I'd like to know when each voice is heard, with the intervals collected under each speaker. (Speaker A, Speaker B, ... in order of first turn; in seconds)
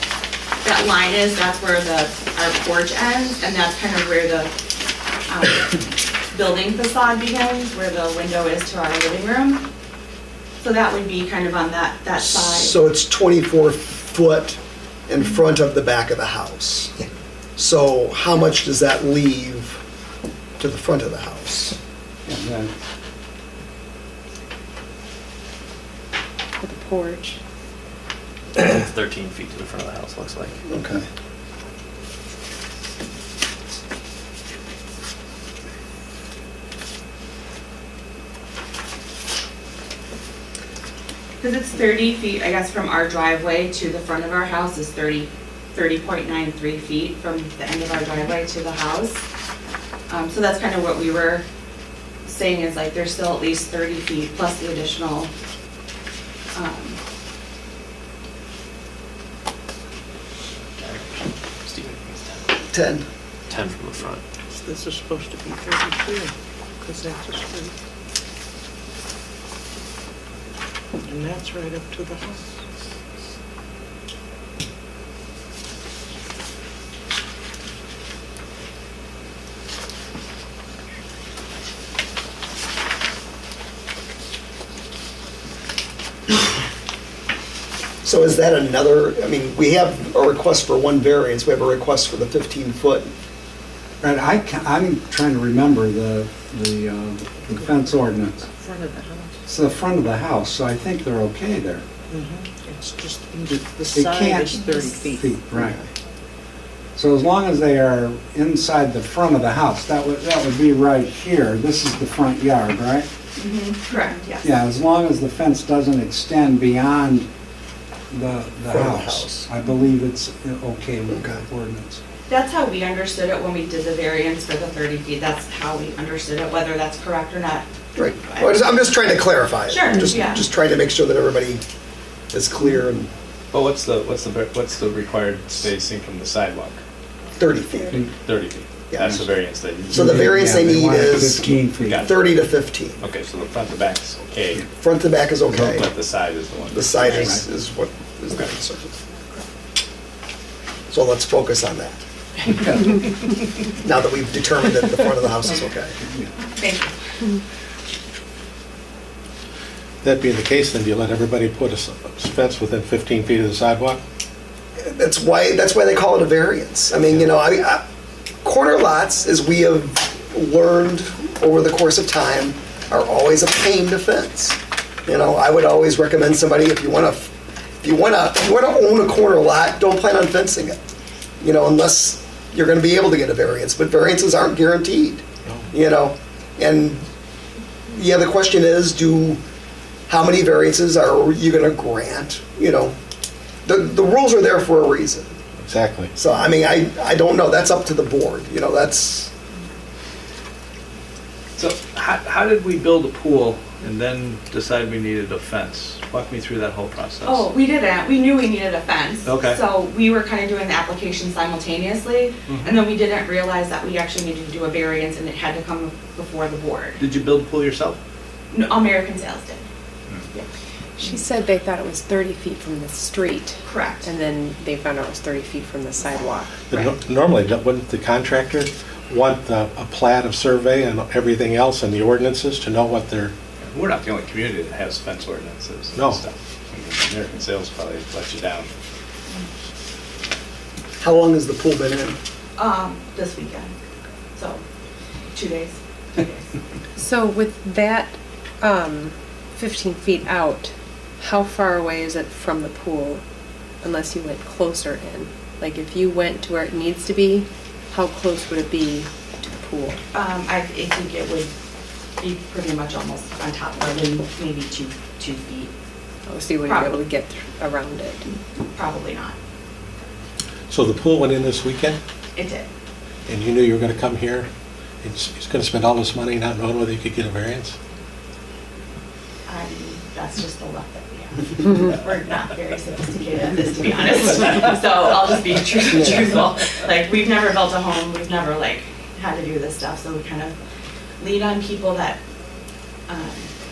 Speaker A: 0.6-4.5, 5.3-9.7, 10.6-12.8, 41.4-49.2, 50.1-51.5, 52.2-55.3, 56.5-57.0, 113.3-114.5, 122.2-127.7, 128.2-128.9, 129.7-130.5, 156.4-157.3, 207.2-217.0, 218.5-219.7, 223.7-224.1, 242.6-243.8, 244.3-244.6, 245.3-246.5, 260.1-261.5, 262.2-265.7, 266.6-267.0, 268.7-269.4, 272.3-272.7, 279.4-290.6, 291.2-292.2, 293.1-293.5
Speaker B: 12.2-17.1, 17.6-19.8, 20.6-21.8, 30.7-31.0, 62.7-63.0, 88.0-93.1, 118.7-119.5, 121.1-121.4, 128.0-131.6, 132.3-133.1, 137.4-138.1, 138.9-139.2, 139.9-141.5, 142.0-143.0, 144.8-145.9, 146.7-149.0, 150.9-152.0, 153.8-156.0, 164.8-167.8, 168.4-180.8, 181.4-187.0, 187.9-189.4, 190.1-193.0, 193.7-195.4, 196.2-199.3, 241.0-242.2
Speaker C: 22.3-22.7, 94.0-98.5, 99.5-101.8, 103.9-105.8, 106.9-113.1, 114.4-117.3, 118.1-122.0, 139.9-142.1, 145.5-145.8, 147.0-147.4, 152.8-153.0
Speaker D: 26.6-27.4, 221.0-227.0, 247.0-253.2, 253.8-260.0, 266.3-268.2
Speaker E: 28.6-30.6, 60.8-62.5, 63.5-64.2
Speaker F: 64.7-66.3, 66.8-67.7, 71.1-72.4, 98.6-99.3, 102.2-105.2
Speaker G: 133.5-136.8, 138.2-140.4, 141.8-142.3, 143.0-144.7, 145.6-147.3, 201.6-207.5, 209.2-209.6, 212.5-212.8, 217.0-218.0, 233.6-238.7
Speaker H: 160.0-164.0, 195.6-196.1, 226.7-233.3, 235.9-236.2, 270.7-272.0, 273.3-274.5, 275.0-277.8